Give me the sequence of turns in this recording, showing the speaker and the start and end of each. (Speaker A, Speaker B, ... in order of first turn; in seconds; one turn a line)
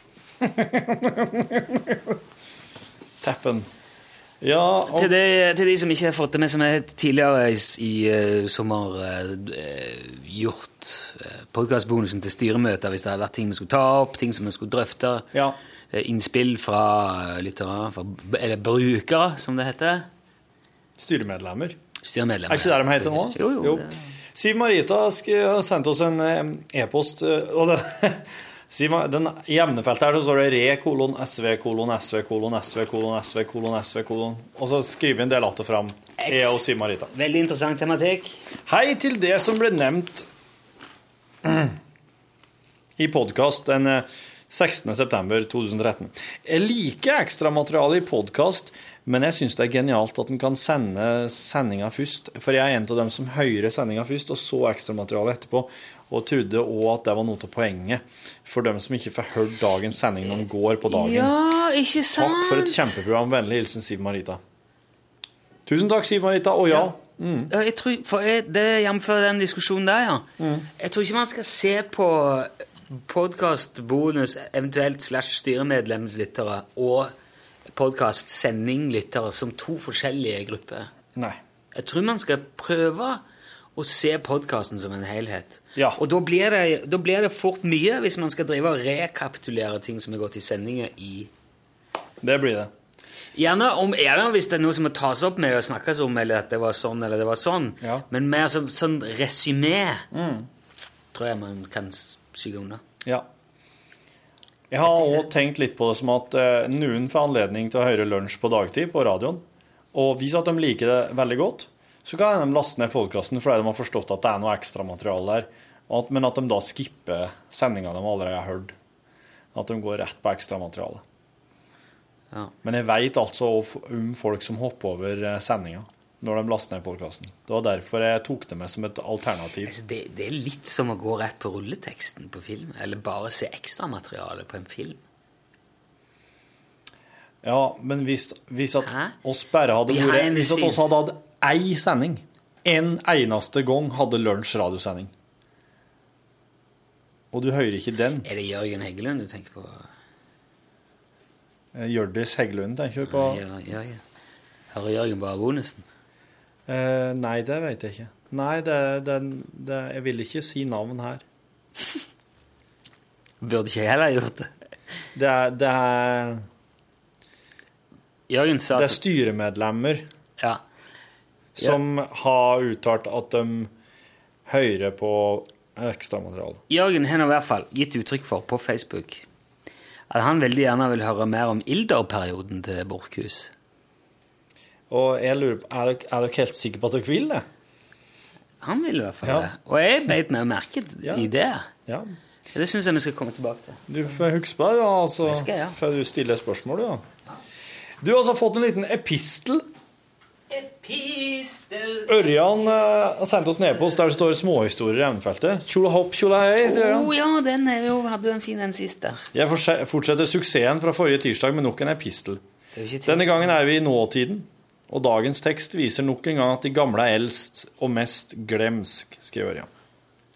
Speaker A: 0.4-2.2
Speaker A: 3.2-3.7
Speaker A: 4.4-5.1
Speaker B: 4.9-15.3
Speaker B: 15.9-20.1
Speaker A: 21.0-21.8
Speaker B: 22.0-24.0
Speaker A: 22.5-37.1
Speaker B: 36.2-38.4
Speaker A: 38.7-40.3
Speaker A: 41.4-41.8
Speaker A: 43.0-61.4
Speaker B: 60.9-63.0
Speaker A: 62.1-64.4
Speaker A: 65.7-67.5
Speaker B: 67.5-70.3
Speaker A: 70.4-70.7
Speaker B: 70.8-77.1
Speaker B: 77.7-80.9
Speaker A: 81.2-81.4
Speaker B: 81.7-83.2
Speaker B: 83.8-91.3
Speaker A: 92.2-92.7
Speaker B: 93.3-100.1
Speaker A: 100.1-100.5
Speaker B: 101.1-102.8
Speaker A: 104.7-118.8
Speaker B: 104.8-105.2
Speaker A: 119.5-121.0
Speaker A: 122.6-129.7
Speaker B: 129.7-135.0
Speaker A: 137.4-145.1
Speaker B: 138.8-139.2
Speaker B: 139.9-140.9
Speaker A: 147.3-148.3
Speaker B: 148.2-149.9
Speaker A: 151.7-153.4
Speaker B: 153.0-154.0
Speaker B: 154.7-155.8
Speaker A: 156.7-161.2
Speaker B: 163.4-164.5
Speaker A: 165.2-166.4
Speaker B: 168.3-169.0
Speaker A: 168.7-170.1
Speaker A: 171.6-173.7
Speaker A: 174.5-176.6
Speaker B: 176.7-179.2
Speaker B: 180.1-183.5
Speaker A: 184.9-187.4
Speaker B: 188.6-191.7
Speaker A: 189.2-189.5
Speaker A: 191.0-191.3
Speaker A: 191.9-192.1
Speaker B: 192.5-193.8
Speaker A: 193.9-197.0
Speaker B: 195.2-195.8
Speaker A: 198.0-199.7
Speaker B: 200.5-202.4
Speaker A: 202.1-207.1
Speaker B: 206.6-209.2
Speaker A: 209.3-212.4
Speaker B: 212.8-213.6
Speaker A: 213.1-219.7